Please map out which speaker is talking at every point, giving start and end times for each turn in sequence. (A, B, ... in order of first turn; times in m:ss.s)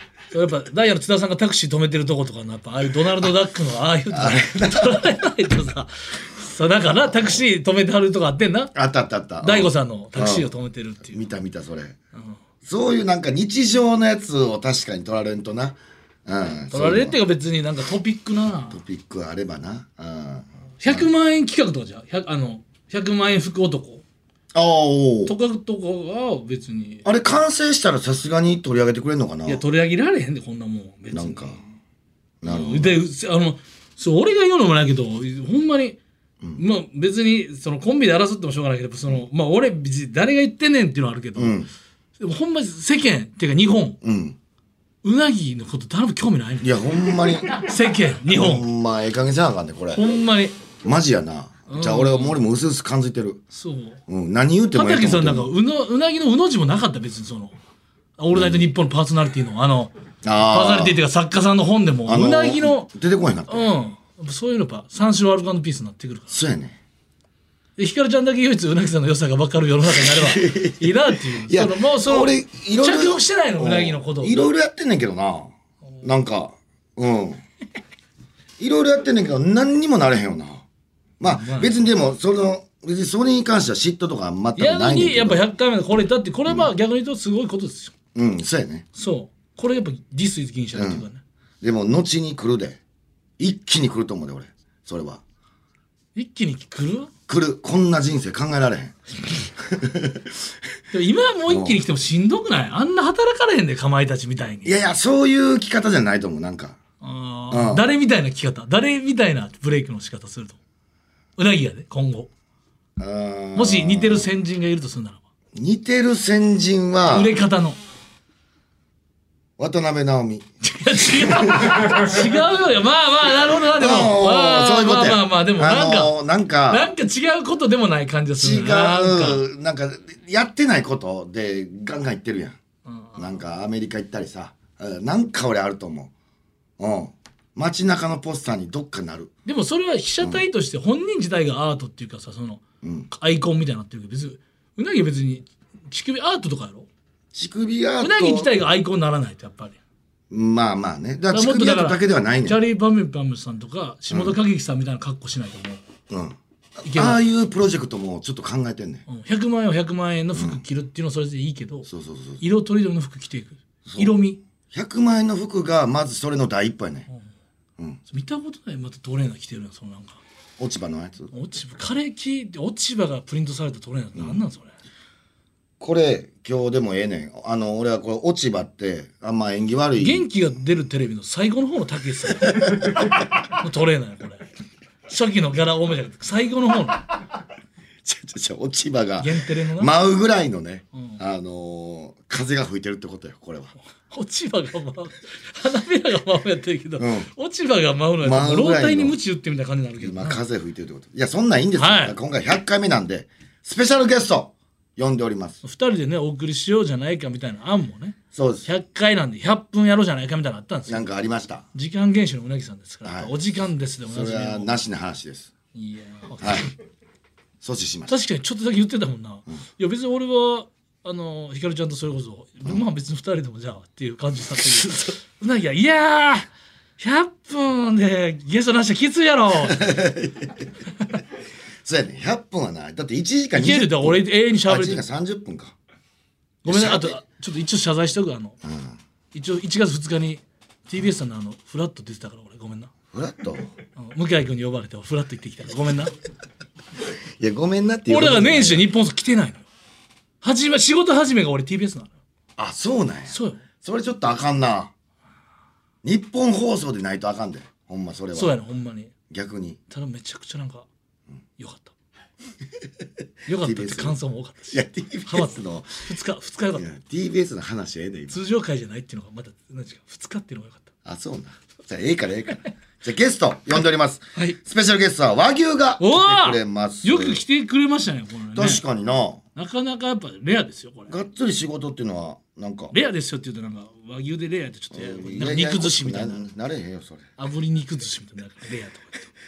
0:00.3-0:08.7 A
0:04.1-0:05.0 B
0:07.1-0:07.4 B
0:08.8-0:10.5 B
0:09.4-0:11.2 A
0:11.1-0:12.0 B
0:12.6-0:17.2 B
0:16.7-0:18.8 A
0:18.7-0:21.1 B
0:20.8-0:24.0 A
0:24.5-0:25.3 B
0:25.3-0:27.1 A
0:27.0-0:29.6 B
0:29.5-0:31.7 A
0:31.1-0:31.6 B
0:32.4-0:33.0 B
0:32.4-0:36.0 A
0:36.6-0:41.6 A
0:41.4-0:41.7 B
0:42.2-0:44.0 A
0:44.0-0:44.4 B
0:45.0-0:46.8 A
0:46.6-0:47.6 B
0:47.5-0:48.7 A
0:48.3-0:50.0 B
0:50.0-0:50.5 A
0:50.8-0:53.4 B
0:51.7-0:52.4 A
0:53.5-0:54.0 A
0:54.1-0:55.5 B
0:54.7-0:57.5 A
0:58.2-0:59.9 A
0:58.3-0:58.7 B
1:00.2-1:01.0 B
1:00.5-1:02.9 A
1:02.1-1:03.7 B
1:03.5-1:06.4 A
1:06.3-1:06.8 B
1:07.8-1:14.5 A
1:09.9-1:17.4 B
1:18.6-1:20.6 B
1:21.2-1:25.4 B
1:21.2-1:21.8 A
1:24.6-1:27.9 A
1:28.2-1:28.9 B
1:29.0-1:31.2 A
1:30.7-1:31.1 B
1:31.6-1:32.8 B
1:33.4-1:35.2 B
1:36.2-1:37.1 A
1:37.3-1:40.3 B
1:40.9-1:44.8 A
1:41.5-1:41.8 B
1:44.6-1:46.8 B
1:47.0-1:50.6 A
1:47.5-1:47.9 B
1:51.4-1:52.3 A
1:53.0-1:54.3 B
1:53.6-1:55.2 A
1:55.6-1:57.4 B
1:57.1-1:57.8 A
1:59.6-2:00.5 B
2:00.6-2:06.1 A
2:01.0-2:02.2 B
2:03.8-2:06.9 B
2:06.7-2:09.4 A
2:08.4-2:12.6 B
2:12.9-2:13.4 A
2:13.2-2:16.1 B
2:16.8-2:19.3 B
2:19.5-2:26.9 A
2:22.8-2:23.1 B
2:27.3-2:28.5 B
2:28.0-2:29.8 A
2:30.3-2:32.6 B
2:31.3-2:35.8 A
2:34.1-2:34.4 B
2:36.1-2:39.0 B
2:36.9-2:37.2 A
2:39.1-2:41.9 A
2:40.4-2:40.6 B
2:41.9-2:42.4 B
2:42.4-2:44.4 A
2:43.9-2:44.2 B
2:44.7-2:47.1 B
2:48.1-2:50.2 A
2:50.6-2:51.3 B
2:51.3-2:54.7 A
2:54.2-2:54.4 B
2:55.8-3:00.3 B
3:00.0-3:03.0 A
3:03.5-3:04.5 A
3:05.1-3:07.1 A
3:08.0-3:13.7 B
3:09.2-3:09.9 A
3:14.1-3:20.4 A
3:17.0-3:17.3 B
3:18.2-3:19.2 B
3:20.0-3:25.6 B
3:21.8-3:22.2 A
3:25.6-3:31.1 A
3:28.3-3:28.7 B
3:30.9-3:31.6 B
3:31.7-3:34.8 A
3:33.0-3:33.3 B
3:34.1-3:35.5 B
3:35.7-3:36.7 A
3:36.4-3:36.7 B
3:37.6-3:38.2 B
3:38.1-3:46.5 A
3:47.0-3:50.0 A
3:49.6-3:50.7 B
3:51.8-3:55.8 B
3:53.5-3:55.0 A
3:56.6-3:58.6 A
3:56.7-3:57.2 B
3:58.6-3:59.0 B
3:59.3-4:02.9 A
4:03.1-4:03.7 B
4:04.0-4:06.1 A
4:07.4-4:08.9 B
4:08.1-4:09.6 A
4:10.4-4:12.1 A
4:12.6-4:14.9 B
4:13.3-4:13.6 A
4:16.0-4:18.6 B
4:18.4-4:19.1 A
4:19.3-4:19.8 B
4:19.9-4:20.9 A
4:21.6-4:21.9 A
4:23.5-4:26.9 A
4:23.5-4:24.2 B
4:24.7-4:26.0 B
4:26.8-4:28.4 B
4:28.3-4:30.9 A
4:31.0-4:37.4 B
4:36.0-4:38.8 A
4:38.6-4:39.4 B
4:39.6-4:41.2 A
4:41.1-4:42.9 B
4:42.9-4:46.5 A
4:44.9-4:47.3 B
4:47.4-4:49.3 A